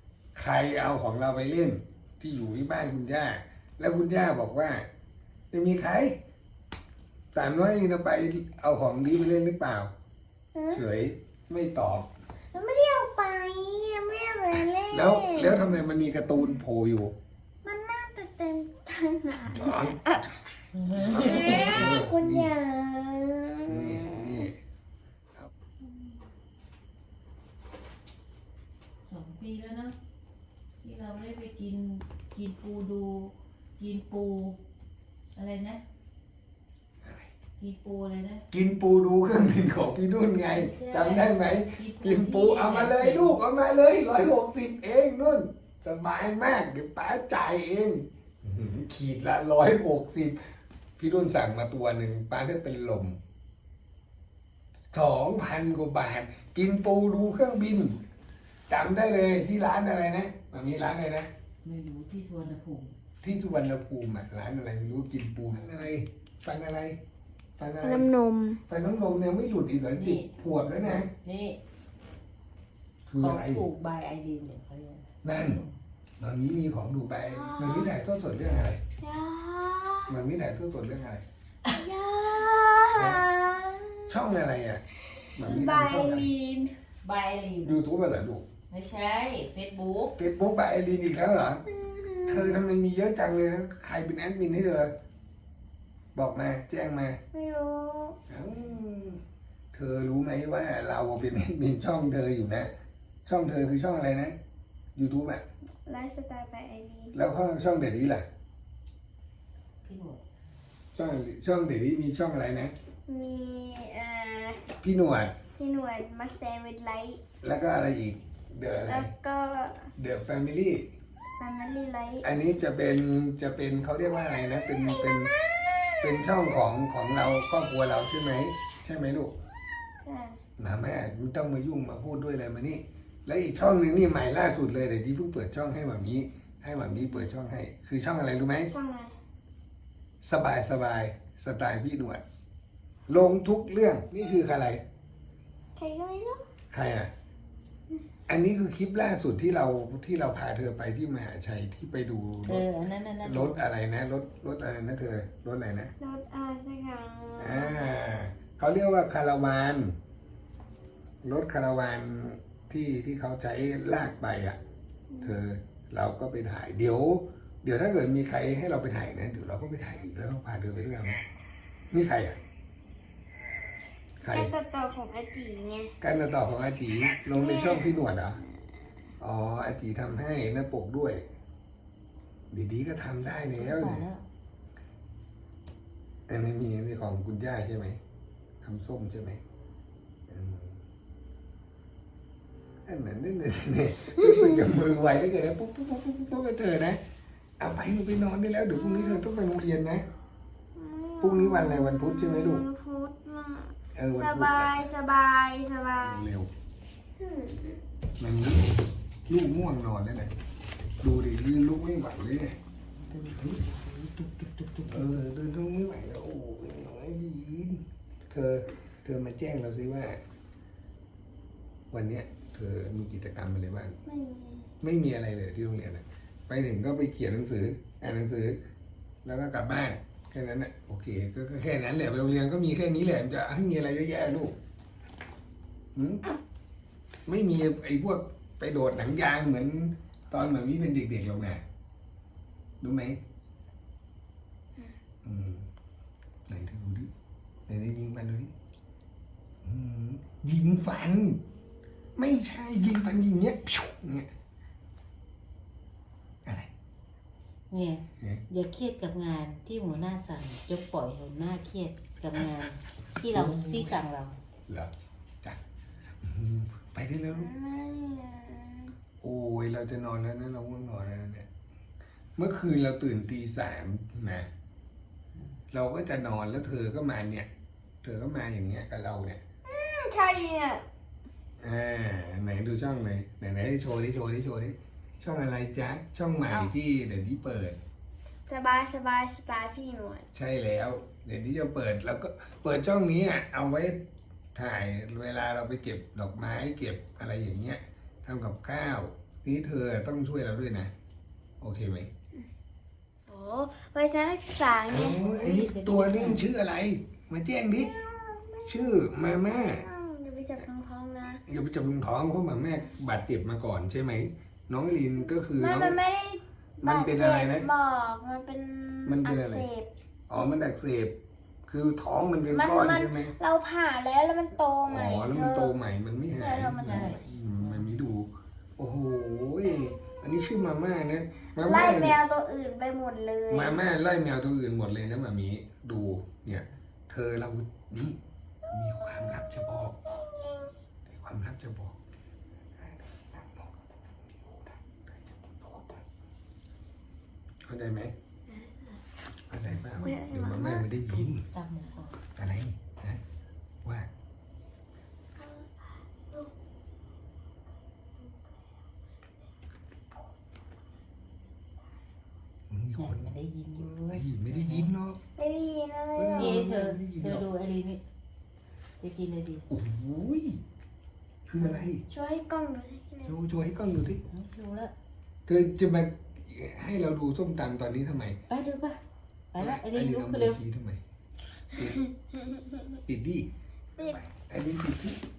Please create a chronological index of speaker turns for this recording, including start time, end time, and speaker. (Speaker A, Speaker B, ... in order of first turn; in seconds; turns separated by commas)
Speaker A: 0.3-4.9, Speaker A: 5.5-6.2, Speaker A: 7.3-9.9, Speaker B: 10.5-10.8, Speaker A: 10.7-12.1, Speaker B: 12.5-15.8, Speaker A: 14.9-17.1, Speaker B: 16.4-16.6, Speaker B: 17.6-20.4, Speaker A: 19.5-20.0, Speaker C: 20.8-21.8, Speaker B: 20.9-24.5, Speaker A: 21.0-22.5, Speaker A: 23.7-24.6, Speaker C: 29.1-29.9, Speaker C: 30.8-34.6, Speaker C: 35.3-35.8, Speaker A: 37.0-37.3, Speaker C: 37.6-38.5, Speaker A: 38.5-50.4, Speaker C: 40.4-43.4, Speaker A: 51.0-53.2, Speaker A: 54.9-58.0, Speaker A: 58.7-61.3, Speaker C: 61.6-63.0, Speaker A: 63.2-67.0, Speaker A: 67.6-68.1, Speaker B: 67.8-68.6, Speaker A: 68.7-71.1, Speaker C: 69.9-71.6, Speaker A: 73.1-73.7, Speaker C: 73.2-75.8, Speaker A: 75.2-75.6, Speaker A: 76.2-78.8, Speaker B: 77.2-78.0, Speaker B: 79.0-80.2, Speaker A: 80.1-81.2, Speaker B: 81.7-84.3, Speaker A: 82.9-83.2, Speaker A: 84.1-84.8, Speaker B: 85.1-86.8, Speaker A: 85.4-86.3, Speaker C: 87.0-87.8, Speaker A: 87.6-88.5, Speaker C: 88.7-90.2, Speaker A: 90.2-91.6, Speaker B: 91.7-92.6, Speaker A: 92.2-94.9, Speaker A: 96.1-97.2, Speaker B: 97.3-98.2, Speaker A: 98.3-99.2, Speaker A: 99.7-102.7, Speaker A: 103.2-104.3, Speaker A: 105.0-105.4, Speaker B: 105.8-107.2, Speaker A: 107.1-108.2, Speaker C: 109.8-110.2, Speaker A: 110.9-112.7, Speaker B: 113.1-114.7, Speaker A: 114.8-115.3, Speaker B: 115.6-117.2, Speaker A: 117.4-119.1, Speaker B: 118.8-119.9, Speaker A: 120.0-120.9, Speaker B: 121.4-122.3, Speaker A: 122.2-125.3, Speaker B: 124.8-126.2, Speaker A: 126.0-129.3, Speaker B: 130.0-130.4, Speaker A: 130.6-138.7, Speaker B: 136.9-137.3, Speaker B: 138.7-139.2, Speaker A: 140.2-142.2, Speaker A: 143.1-144.8, Speaker B: 145.8-146.4, Speaker A: 146.7-147.1, Speaker A: 148.3-152.7, Speaker C: 152.4-153.6, Speaker A: 153.2-155.9, Speaker B: 156.0-157.9, Speaker A: 157.4-159.9, Speaker A: 161.2-164.6, Speaker B: 165.1-165.4, Speaker A: 165.2-171.2, Speaker A: 171.9-172.4, Speaker A: 174.2-174.5, Speaker B: 174.3-176.0, Speaker A: 176.0-178.4, Speaker B: 177.3-178.7, Speaker A: 179.2-181.2, Speaker A: 182.5-184.1, Speaker C: 183.5-184.3, Speaker A: 186.3-188.0, Speaker A: 188.6-189.4, Speaker A: 190.3-190.8, Speaker A: 192.8-197.0, Speaker B: 194.1-194.6, Speaker A: 197.6-200.1, Speaker B: 198.7-199.2, Speaker B: 200.8-206.2, Speaker A: 201.2-202.7, Speaker A: 203.9-204.8, Speaker A: 206.0-206.5, Speaker B: 207.2-207.8, Speaker A: 208.2-210.3, Speaker A: 211.0-212.6, Speaker C: 213.0-215.1, Speaker A: 214.9-220.2, Speaker A: 221.9-224.0, Speaker B: 224.1-224.7, Speaker A: 224.8-228.6, Speaker A: 229.2-234.6, Speaker A: 235.9-236.2, Speaker A: 237.3-241.6, Speaker A: 242.8-243.2, Speaker A: 245.2-245.7, Speaker A: 246.5-247.1, Speaker A: 247.7-248.5, Speaker A: 249.6-251.4, Speaker A: 252.2-254.3, Speaker C: 257.7-264.4, Speaker A: 263.3-264.0, Speaker A: 264.7-265.6, Speaker A: 266.2-267.5, Speaker B: 267.3-268.9, Speaker A: 269.2-271.5, Speaker A: 272.4-274.5, Speaker A: 275.7-277.5, Speaker A: 278.0-279.4, Speaker B: 279.6-280.9, Speaker A: 281.6-287.8, Speaker B: 286.5-286.7, Speaker B: 288.5-290.3, Speaker A: 290.3-294.0, Speaker A: 294.5-300.9, Speaker A: 301.6-302.1, Speaker B: 303.3-305.2, Speaker A: 304.9-307.9, Speaker C: 304.9-306.5, Speaker B: 307.7-311.4, Speaker A: 308.6-309.9, Speaker A: 311.5-316.0, Speaker B: 315.4-319.9, Speaker A: 316.8-317.7, Speaker A: 319.1-319.7, Speaker A: 320.3-321.1, Speaker A: 321.7-323.3, Speaker B: 322.5-325.8, Speaker A: 324.9-332.2, Speaker B: 326.3-327.2, Speaker C: 326.8-327.9, Speaker B: 331.6-333.8, Speaker A: 333.5-338.2, Speaker A: 338.7-340.0, Speaker A: 341.1-342.0, Speaker A: 342.8-343.7, Speaker A: 344.3-346.0, Speaker A: 347.6-348.1, Speaker A: 349.5-351.5, Speaker C: 349.7-350.2, Speaker B: 350.0-350.9, Speaker C: 351.2-352.2, Speaker A: 352.4-353.2, Speaker A: 353.8-354.1, Speaker B: 355.4-355.7, Speaker A: 362.7-363.4, Speaker C: 363.0-364.9, Speaker A: 363.9-365.2, Speaker B: 365.4-366.7, Speaker A: 366.2-367.5, Speaker C: 366.4-368.0, Speaker C: 369.0-369.6, Speaker A: 369.7-370.6, Speaker A: 371.5-372.1, Speaker C: 371.6-371.9, Speaker B: 372.1-373.4, Speaker A: 373.2-374.2, Speaker C: 374.2-374.9, Speaker A: 375.5-378.4, Speaker C: 378.5-379.0, Speaker C: 379.5-380.6, Speaker A: 379.6-381.0, Speaker A: 381.7-382.0, Speaker A: 383.1-385.2